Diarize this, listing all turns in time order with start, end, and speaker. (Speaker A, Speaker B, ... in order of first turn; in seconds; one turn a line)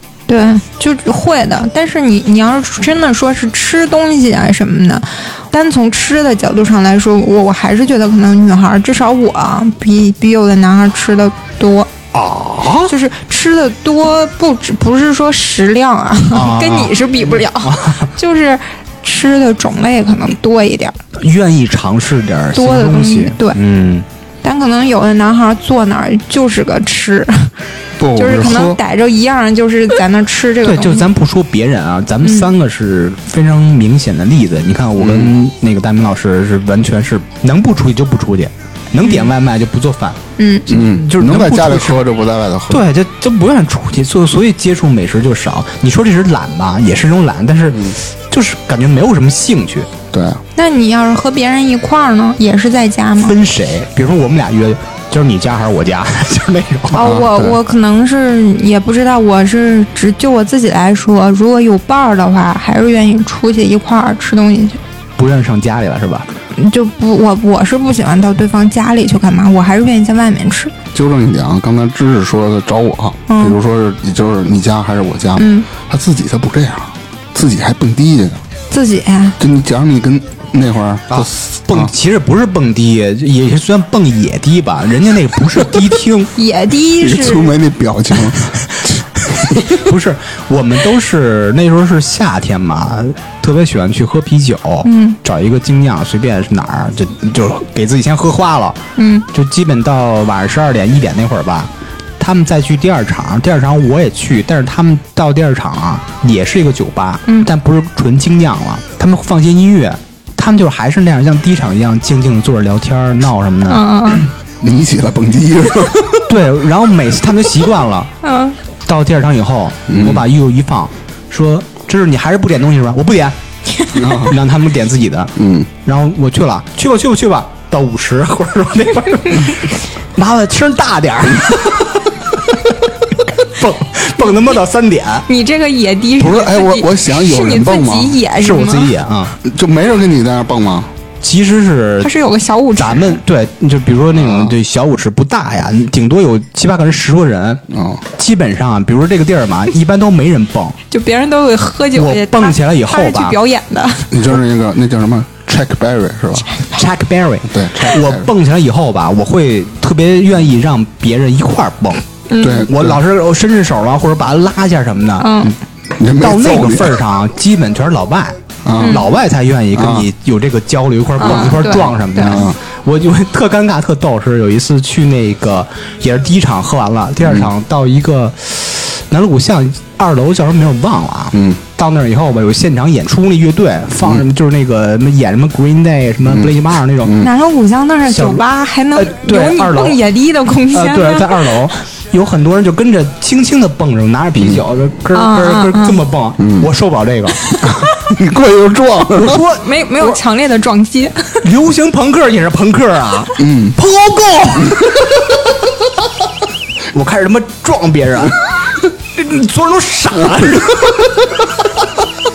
Speaker A: 0.3-11.9
Speaker B: 12.1-12.9
Speaker A: 12.9-21.0
Speaker B: 16.3-18.1
Speaker B: 21.2-24.1
Speaker A: 22.5-23.6
Speaker A: 24.4-27.5
Speaker C: 28.0-28.8
Speaker A: 28.2-31.1
Speaker B: 30.6-42.0
Speaker A: 32.2-32.5
Speaker C: 35.0-35.4
Speaker A: 40.4-40.6
Speaker C: 40.7-42.8
Speaker B: 42.7-49.9
Speaker C: 50.1-50.4
Speaker A: 50.6-53.4
Speaker B: 53.2-57.1
Speaker A: 56.9-64.8
Speaker C: 57.0-57.6
Speaker B: 65.2-66.3
Speaker A: 66.5-70.7
Speaker C: 70.9-78.4
Speaker A: 73.3-73.6
Speaker A: 75.4-75.7
Speaker A: 78.7-79.4
Speaker C: 79.4-81.9
Speaker B: 81.1-86.3
Speaker A: 86.4-87.6
Speaker C: 87.0-88.6
Speaker C: 89.4-89.8
Speaker B: 89.7-98.8
Speaker A: 94.8-95.2
Speaker A: 99.0-99.3
Speaker B: 99.3-113.8
Speaker A: 113.7-114.3
Speaker C: 114.6-116.3
Speaker B: 116.3-118.1
Speaker A: 118.2-118.6
Speaker B: 118.9-123.4
Speaker C: 119.9-120.2
Speaker C: 124.0-124.3
Speaker B: 124.0-135.3
Speaker C: 125.4-125.7
Speaker A: 135.3-138.9
Speaker C: 136.2-138.2
Speaker B: 138.4-139.4
Speaker C: 139.4-140.9
Speaker B: 141.2-142.1
Speaker A: 142.0-143.2
Speaker B: 142.8-147.6
Speaker C: 144.2-144.5
Speaker C: 147.7-148.0
Speaker B: 148.2-150.8
Speaker A: 150.9-154.1
Speaker B: 151.9-153.4
Speaker C: 154.1-156.5
Speaker B: 156.7-165.4
Speaker C: 157.5-158.3
Speaker A: 162.3-162.7
Speaker C: 162.4-163.0
Speaker A: 165.2-165.6
Speaker C: 166.0-167.0
Speaker B: 166.2-187.2
Speaker C: 168.6-169.0
Speaker A: 168.8-169.1
Speaker C: 169.8-170.1
Speaker A: 171.2-172.5
Speaker C: 172.2-172.6
Speaker C: 177.2-177.5
Speaker C: 181.3-181.6
Speaker C: 186.3-187.3
Speaker A: 187.2-191.7
Speaker B: 188.1-188.4
Speaker B: 188.9-190.0
Speaker B: 190.7-197.5
Speaker A: 195.1-196.0
Speaker C: 196.4-196.7
Speaker A: 197.4-197.8
Speaker C: 197.6-199.4
Speaker B: 199.2-200.2
Speaker A: 199.5-201.4
Speaker B: 201.4-205.2
Speaker C: 203.4-203.8
Speaker B: 206.9-208.4
Speaker B: 209.1-211.4